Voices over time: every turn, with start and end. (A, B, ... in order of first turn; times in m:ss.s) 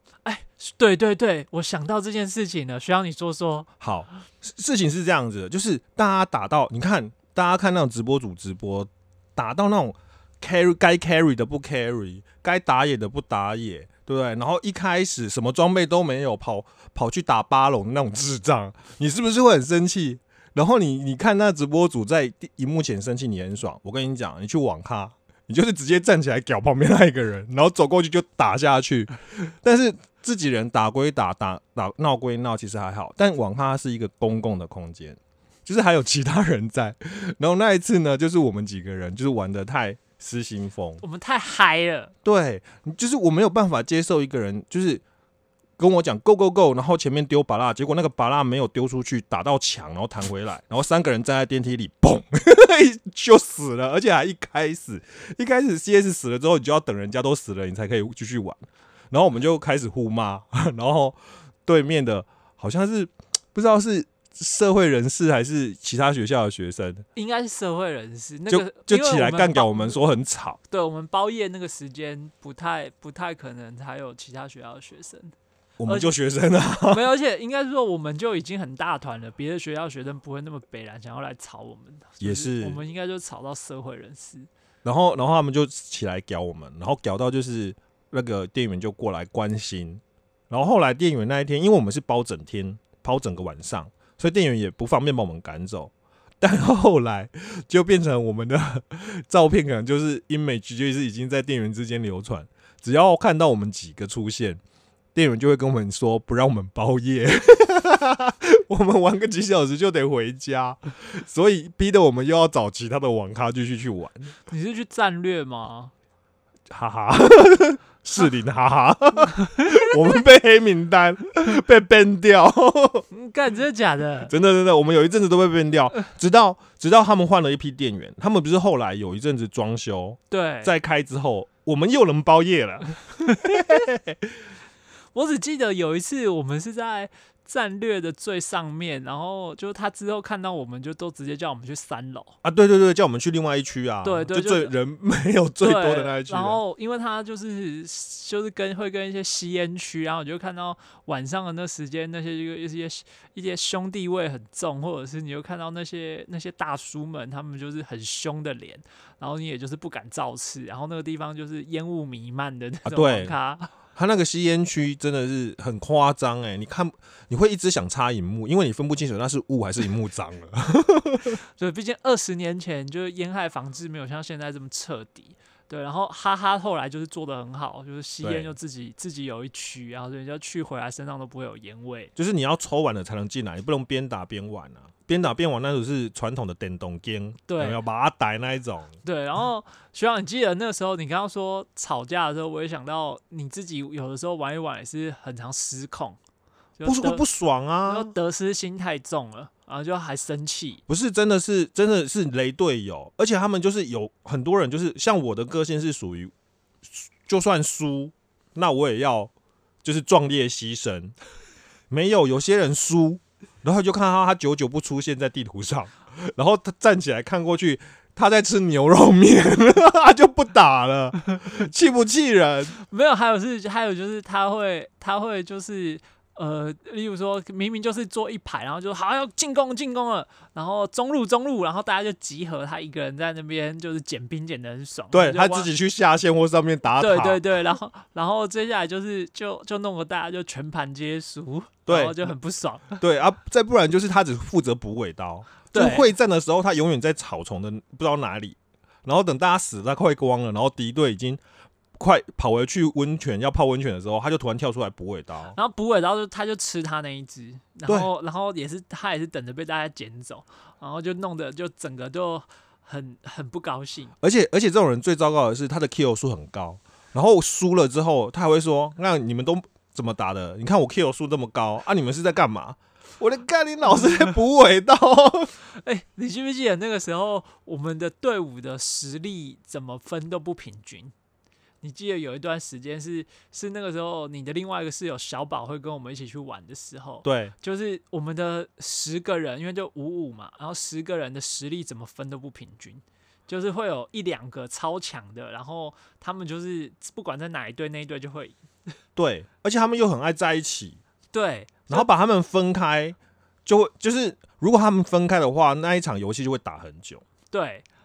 0:00.2-0:03.7 A
0:03.8-0:41.0 B
0:41.0-0:42.1 A
0:42.2-0:45.0 B
0:45.8-1:07.0 B
1:07.2-1:10.0 A
1:08.5-1:10.6 B
1:10.7-1:15.3 A
1:15.8-1:17.0 B
1:15.9-1:16.1 A
1:16.8-1:24.5 A
1:22.2-1:22.8 B
1:24.8-1:44.6 B
1:45.2-1:54.3 B
1:54.5-1:55.9 A
1:56.7-2:03.1 B
2:03.1-2:04.3 A
2:04.3-2:14.2 B
2:10.3-2:10.7 A
2:13.3-2:13.6 A
2:15.1-2:22.4 A
2:22.4-2:26.6 B
2:24.0-2:24.7 A
2:25.6-2:43.7 A
2:42.8-2:43.4 B
2:43.9-2:51.4 B
2:51.4-3:02.1 A
2:58.2-2:58.5 B
3:02.2-3:08.9 B
3:07.5-3:07.8 A
3:09.0-3:16.2 A
3:16.8-3:17.2 A
3:16.8-3:18.1 B
3:17.9-3:20.8 A
3:20.9-3:26.3 B
3:26.9-3:29.3 B
3:29.8-3:31.1 B
3:31.9-3:42.8 B
3:42.8-3:55.7 A
3:55.1-3:57.4 B
3:57.0-4:03.0 A
4:01.9-4:02.3 B
4:03.0-4:11.4 B
4:05.7-4:06.1 A
4:12.0-4:15.6 B
4:15.5-4:24.1 A
4:24.2-4:35.5 B
4:35.7-4:41.1 A
4:41.8-4:58.6 A
4:47.2-4:47.5 B
4:59.2-5:01.0 B
5:01.3-5:02.1 A
5:01.9-5:07.2 B
5:07.5-5:07.9 A